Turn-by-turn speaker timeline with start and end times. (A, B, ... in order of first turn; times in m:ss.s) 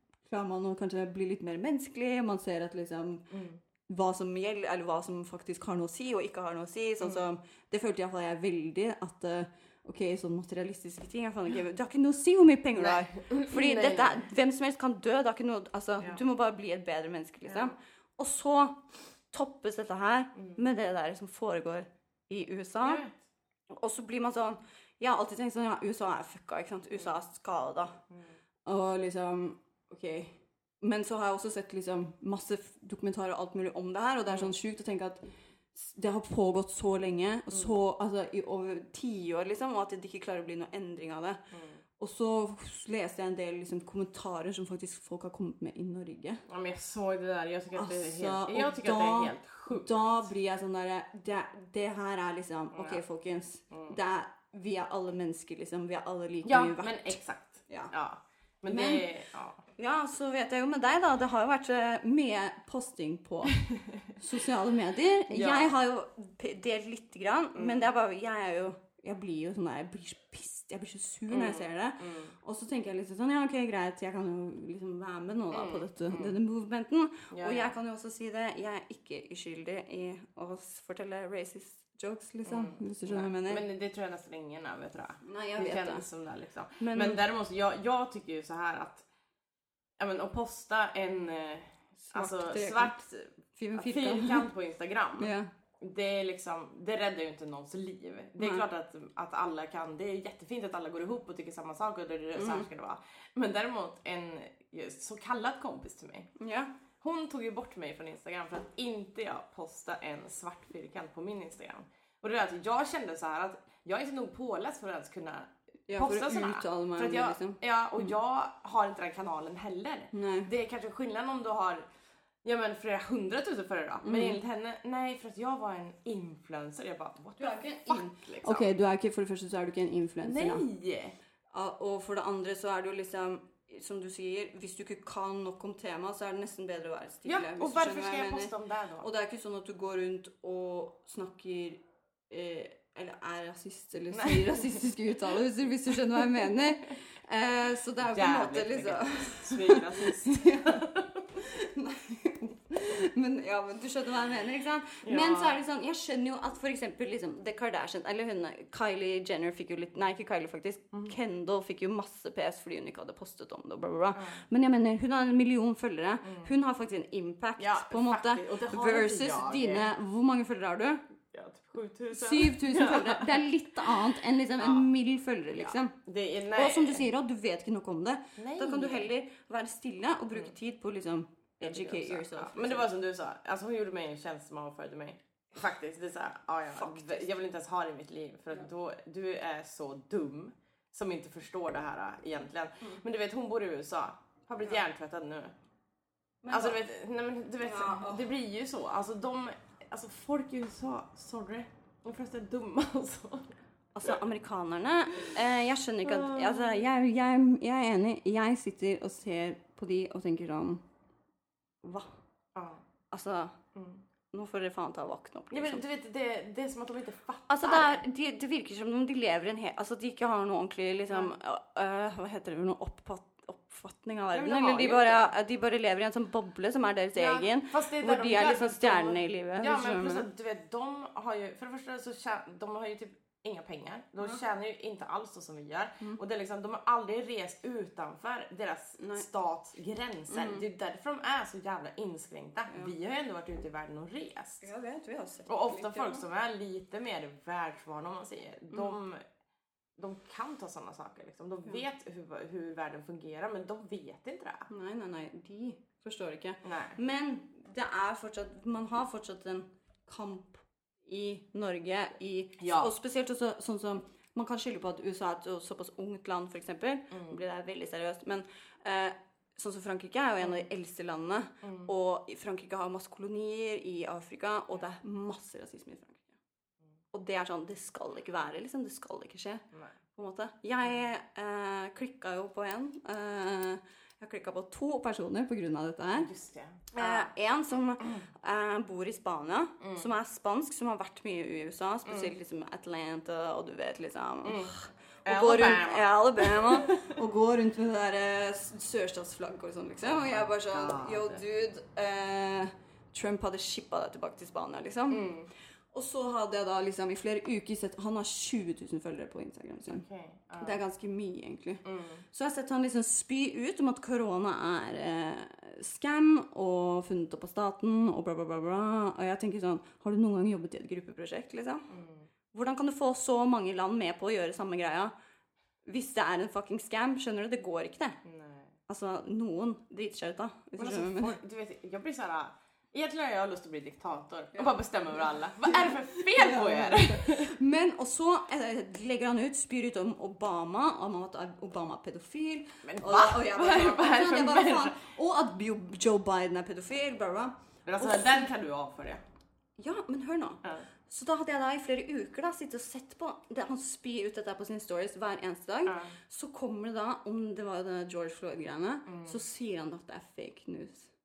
0:00.2-0:03.3 A
0:03.3-0:03.6 B
0:03.9-0:23.0 A
0:07.0-0:07.2 B
0:12.8-0:14.2 B
0:17.4-0:17.7 B
0:22.8-0:23.2 B
0:23.7-0:28.0 A
0:28.1-0:28.4 B
0:28.6-0:41.4 A
0:34.3-0:34.5 B
0:37.5-0:37.8 B
0:41.5-0:41.8 B
0:42.0-0:46.4 A
0:46.5-0:50.0 B
0:47.7-0:57.9 A
0:52.7-0:53.0 B
0:56.4-0:59.6 B
0:58.6-0:59.1 A
0:59.8-1:03.6 A
1:04.1-1:23.6 A
1:05.3-1:05.7 B
1:07.5-1:07.9 B
1:11.3-1:12.3 B
1:15.5-1:16.4 B
1:17.3-1:17.7 B
1:22.4-1:29.0 B
1:25.2-1:26.0 A
1:26.8-1:27.2 A
1:30.0-1:46.3 B
1:32.0-1:33.0 A
1:33.6-1:34.5 A
1:35.2-1:35.5 A
1:38.4-1:38.6 A
1:42.3-1:42.7 A
1:46.4-1:46.7 A
1:47.0-2:01.8 B
1:55.9-1:58.1 A
2:00.1-2:00.5 A
2:02.4-2:08.7 B
2:04.0-2:04.4 A
2:07.4-2:10.7 A
2:10.2-2:11.1 B
2:11.5-2:51.0 A
2:17.2-2:19.1 B
2:24.1-2:24.7 B
2:28.0-2:31.2 B
2:35.0-2:35.6 B
2:44.1-2:44.4 B
2:46.2-2:46.5 B
2:47.6-2:49.9 B
2:51.3-2:53.4 B
2:52.1-2:55.9 A
2:54.6-2:54.9 B
2:55.5-2:57.0 B
2:56.5-3:02.9 A
2:58.4-2:59.1 B
3:01.6-3:15.5 B
3:06.7-3:07.3 A
3:16.4-3:16.8 A
3:16.5-3:23.5 B
3:17.6-3:18.3 A
3:23.9-3:30.8 A
3:26.0-3:26.9 B
3:31.8-3:32.1 A
3:32.5-3:32.8 B
3:33.1-3:33.6 A
3:33.7-3:34.0 B
3:34.3-3:35.8 A
3:35.5-3:38.0 B
3:37.5-3:50.3 A
3:44.3-3:45.3 B
3:47.1-4:04.7 B
3:59.0-3:59.2 A
4:00.3-4:00.6 A
4:04.6-4:06.2 A
4:05.5-4:09.2 B
4:08.7-4:09.0 A
4:10.0-4:14.7 B
4:14.7-4:36.3 A
4:16.6-4:17.0 B
4:22.6-4:22.9 B
4:27.1-4:27.4 B
4:37.1-4:46.3 A
4:46.1-4:47.3 B
4:46.9-5:05.3 A
4:49.8-4:50.1 B
4:52.0-4:52.3 B
4:54.4-4:57.1 B
5:00.0-5:01.4 B
5:05.1-5:05.5 B
5:05.9-5:10.0 A
5:09.9-5:10.8 B
5:10.6-5:21.9 A
5:11.8-5:12.2 B
5:21.9-5:22.3 B
5:22.5-5:25.1 A
5:25.8-5:28.2 A
5:28.2-5:28.7 B
5:28.9-5:31.4 A
5:30.8-5:37.5 B
5:34.5-5:48.5 A
5:42.8-5:45.0 B
5:47.8-5:49.2 B
5:49.8-6:01.1 A
5:55.8-5:56.1 B
5:59.1-5:59.4 B